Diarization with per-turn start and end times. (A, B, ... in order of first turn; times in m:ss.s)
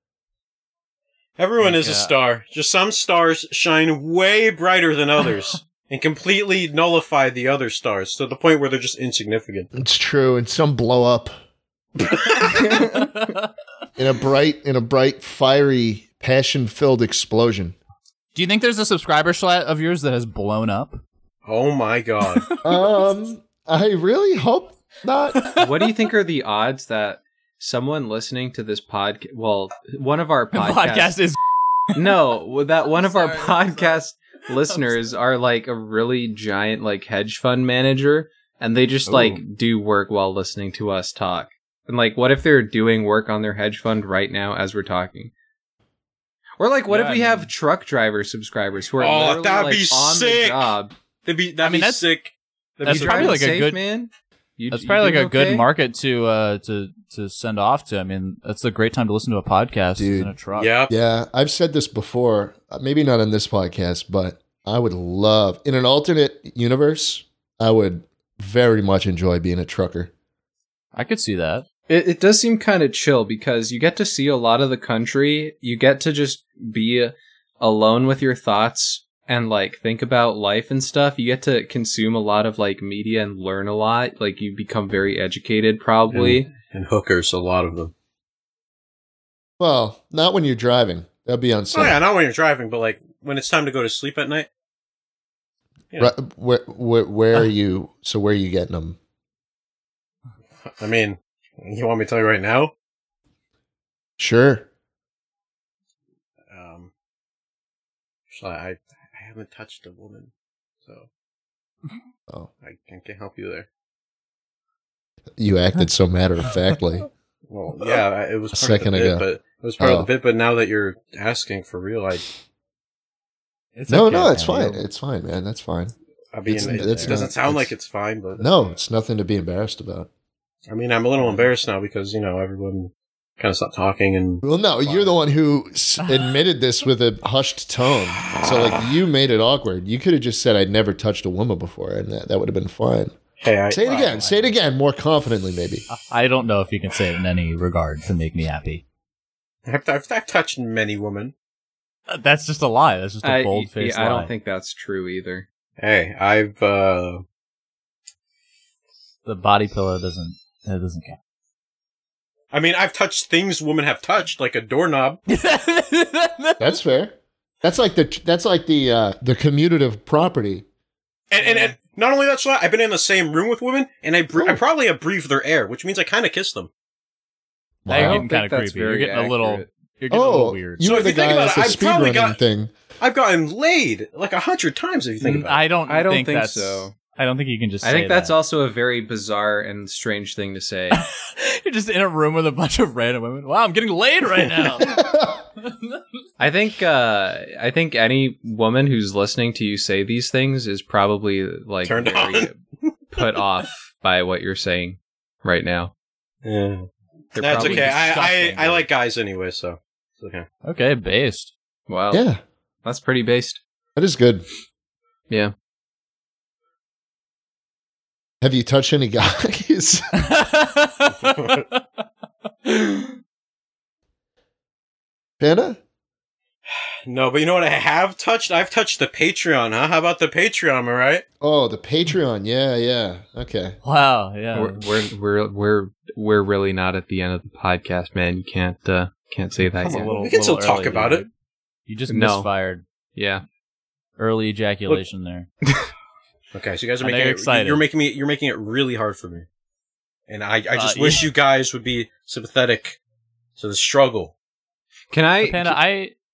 0:01.4-0:09.7 A
0:01.6-0:02.1 B
0:09.7-0:11.3 C
0:12.1-0:12.5 A
0:12.4-0:13.3 D
0:12.9-0:13.3 B
0:14.0-0:17.7 C
0:18.3-0:21.0 B
0:21.4-0:22.4 A
0:22.3-0:22.6 B
0:22.6-0:25.5 C
0:25.4-0:25.7 B
0:25.6-0:31.2 D
0:30.5-0:31.4 B
0:31.9-0:32.2 B
0:31.9-0:45.3 D
0:32.8-0:34.0 B
0:34.6-0:35.0 B
0:39.1-0:39.4 B
0:46.6-0:50.9 D
0:46.9-0:47.5 B
0:49.0-0:50.7 A
0:51.2-0:53.4 A
0:51.6-0:52.1 B
0:52.8-0:55.6 D
0:52.8-0:53.8 B
0:54.7-1:00.7 B
1:00.0-1:00.3 C
1:00.5-1:00.9 A
1:00.9-1:10.1 C
1:10.9-1:11.6 B
1:11.9-1:26.5 D
1:26.1-1:27.9 A
1:29.6-1:32.0 C
1:31.7-1:34.5 A
1:36.0-1:39.0 C
1:40.6-1:42.7 A
1:44.2-1:44.7 C
1:46.5-1:46.9 A
1:48.3-1:50.3 A
1:52.6-1:53.7 A
1:55.4-1:57.1 C
1:57.5-2:02.2 A
1:58.5-1:59.2 C
1:59.8-2:00.1 C
2:03.8-2:04.8 B
2:03.9-2:05.9 C
2:06.3-2:08.5 A
2:06.5-2:07.7 C
2:06.6-2:07.2 B
2:08.4-2:10.1 C
2:10.7-2:15.1 A
2:14.4-2:23.1 C
2:23.4-2:24.1 A
2:23.7-2:25.8 C
2:23.8-2:24.5 B
2:25.9-2:28.8 B
2:29.6-2:31.3 A
2:32.1-2:34.3 B
2:33.2-2:35.4 D
2:35.8-2:37.2 A
2:39.2-2:41.2 B
2:42.5-2:45.2 A
2:45.3-2:46.7 B
2:46.6-2:50.6 C
2:51.3-2:56.7 A
2:54.4-2:54.6 C
2:57.8-2:58.2 C
2:57.9-3:00.9 B
2:57.9-2:59.7 D
3:00.1-3:02.7 C
3:00.8-3:02.4 A
3:03.0-3:05.6 A
3:05.2-3:08.4 B
3:05.9-3:06.9 D
3:07.8-3:11.0 D
3:10.9-3:15.0 B
3:14.8-3:15.4 C
3:15.6-3:16.0 B
3:16.4-3:22.6 D
3:21.8-3:22.9 A
3:23.1-3:25.9 D
3:26.4-3:30.4 A
3:27.3-3:28.1 D
3:27.5-3:28.9 B
3:30.6-3:31.5 B
3:31.9-3:32.2 D
3:32.1-3:32.4 C
3:32.8-3:33.6 D
3:34.0-3:34.4 C
3:38.4-3:40.2 C
3:40.1-3:41.8 B
3:41.1-3:41.7 A
3:42.6-3:43.2 B
3:45.4-3:45.8 C
3:47.0-3:51.2 A
3:51.4-3:53.8 C
3:53.8-3:54.9 B
3:54.5-4:00.1 D
3:59.8-4:01.3 B
3:59.8-4:01.2 A
4:01.9-4:02.8 B
4:02.1-4:02.5 D
4:03.1-4:03.4 D
4:04.2-4:05.5 B
4:06.5-4:09.4 A
4:07.0-4:07.8 B
4:10.3-4:13.0 A
4:10.7-4:11.3 B
4:13.6-4:14.3 A
4:15.1-4:15.8 D
4:15.4-4:16.1 B